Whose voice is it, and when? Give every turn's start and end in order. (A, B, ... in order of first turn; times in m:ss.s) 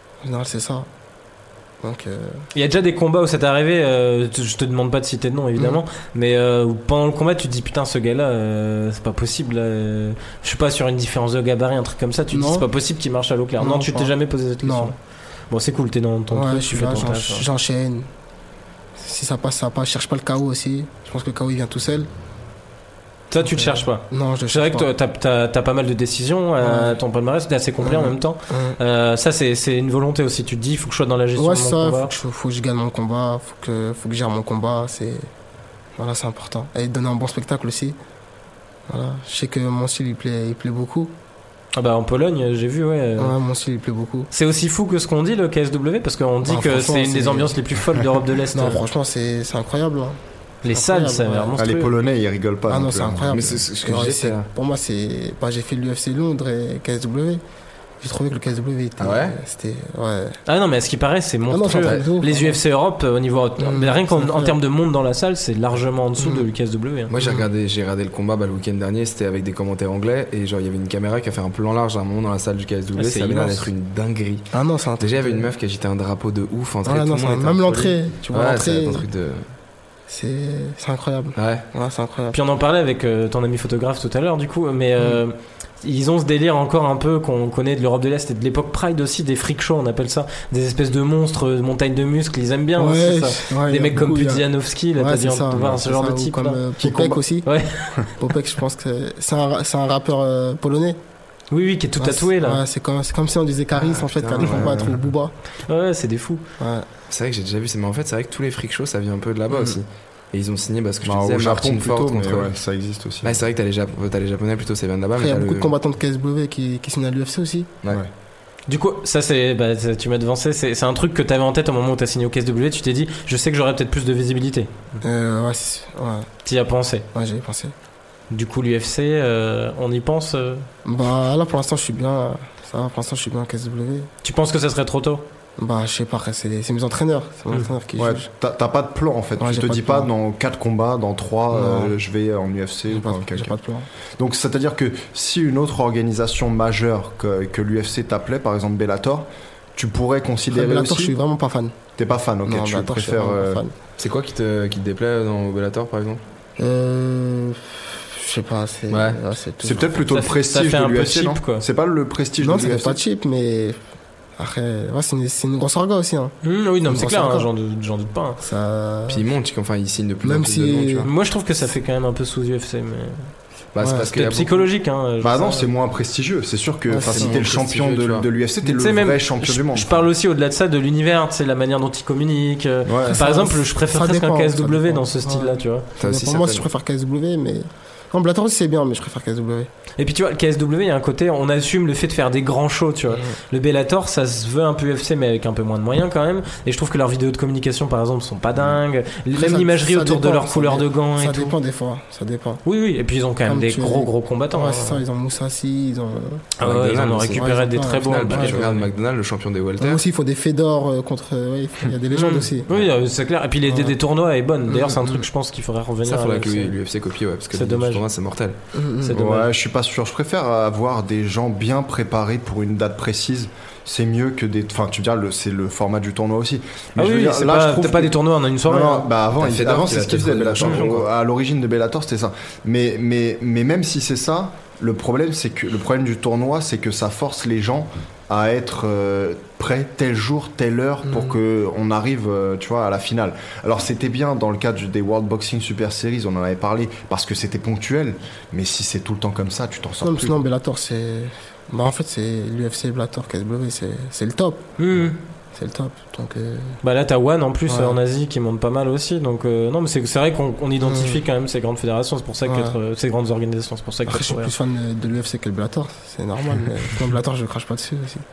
0:00.2-0:00.9 A
0:01.8-0:02.4 A
0:02.5-0:15.0 B
0:12.3-0:12.7 A
0:13.6-0:14.9 A
0:15.5-0:17.4 B
0:16.3-0:18.1 A
0:19.0-0:22.1 A
0:23.3-0:32.1 B
0:23.4-0:24.9 A
0:26.6-0:27.0 A
0:27.8-0:28.8 A
0:31.4-0:35.3 A
0:36.0-0:38.0 A
0:38.9-0:41.1 A
0:41.8-0:43.3 B
0:43.2-0:44.3 A
0:44.3-0:48.8 B
0:46.4-0:47.6 A
0:48.5-0:50.2 A
0:50.6-0:52.0 B
0:50.7-0:51.5 A
0:51.6-0:53.6 C
0:52.7-0:57.4 A
0:53.3-0:54.5 D
0:58.0-1:00.4 A
0:59.0-0:59.4 D
1:00.5-1:07.1 B
1:01.5-1:02.6 A
1:01.8-1:02.0 D
1:03.6-1:04.6 A
1:06.2-1:06.5 A
1:07.1-1:19.4 D
1:07.2-1:07.5 A
1:13.0-1:13.7 B
1:14.5-1:15.5 A
1:16.8-1:19.0 A
1:20.1-1:22.4 A
1:21.4-1:21.6 D
1:22.3-1:36.6 B
1:32.8-1:34.4 A
1:35.0-1:37.5 A
1:36.8-1:37.2 C
1:37.4-1:38.1 B
1:38.2-1:41.0 A
1:41.5-1:42.6 B
1:42.0-1:45.3 A
1:43.7-1:45.0 D
1:45.6-1:46.4 B
1:46.6-1:46.9 A
1:47.1-1:52.5 D
1:49.5-1:49.8 A
1:51.0-1:53.4 C
1:53.2-1:55.7 D
1:55.2-1:57.7 A
1:58.7-2:04.8 B
2:05.0-2:06.3 A
2:06.4-2:07.1 B
2:07.1-2:07.7 A
2:08.3-2:10.7 B
2:10.8-2:14.1 A
2:14.2-2:15.2 B
2:15.6-2:18.3 A
2:18.0-2:23.5 C
2:19.4-2:20.1 A
2:21.5-2:21.9 A
2:22.9-2:23.9 A
2:24.2-2:31.2 C
2:30.5-2:31.8 A
2:32.0-2:33.6 C
2:32.4-2:33.7 A
2:34.0-2:36.2 D
2:36.6-2:40.1 A
2:38.9-2:39.2 D
2:39.6-2:43.0 C
2:40.1-2:41.6 B
2:42.4-2:43.8 A
2:44.4-2:46.3 A
2:46.4-2:48.4 B
2:46.8-2:47.5 A
2:48.4-2:49.3 A
2:49.1-2:51.1 D
2:50.2-2:51.1 A
2:51.0-2:53.3 B
2:53.7-2:54.7 D
2:53.8-2:54.1 A
2:54.1-2:55.7 B
2:55.2-3:00.0 C
2:56.9-2:57.4 A
2:57.0-2:58.2 D
2:58.6-3:05.9 B
3:02.8-3:03.2 C
3:03.1-3:09.7 A
3:06.0-3:06.7 D
3:10.0-3:21.6 B
3:13.1-3:13.4 A
3:19.3-3:22.6 A
3:22.6-3:25.0 B
3:23.4-3:26.4 A
3:26.6-3:28.8 B
3:26.6-3:30.0 D
3:27.3-3:28.7 A
3:29.8-3:32.6 A
3:32.1-3:36.8 B
3:33.7-3:34.0 A
3:34.7-3:35.2 A
3:36.0-3:38.6 D
3:37.5-3:38.0 B
3:38.7-3:39.4 A
3:39.0-4:10.4 C
3:47.0-3:49.1 B
3:49.4-3:51.1 D
4:01.0-4:01.4 A
4:10.0-4:14.7 A
4:14.8-4:15.2 B
4:15.5-4:16.8 A
4:16.8-4:24.5 B
4:17.7-4:18.0 A
4:20.8-4:21.2 A
4:22.4-4:22.8 A
4:24.0-4:28.2 A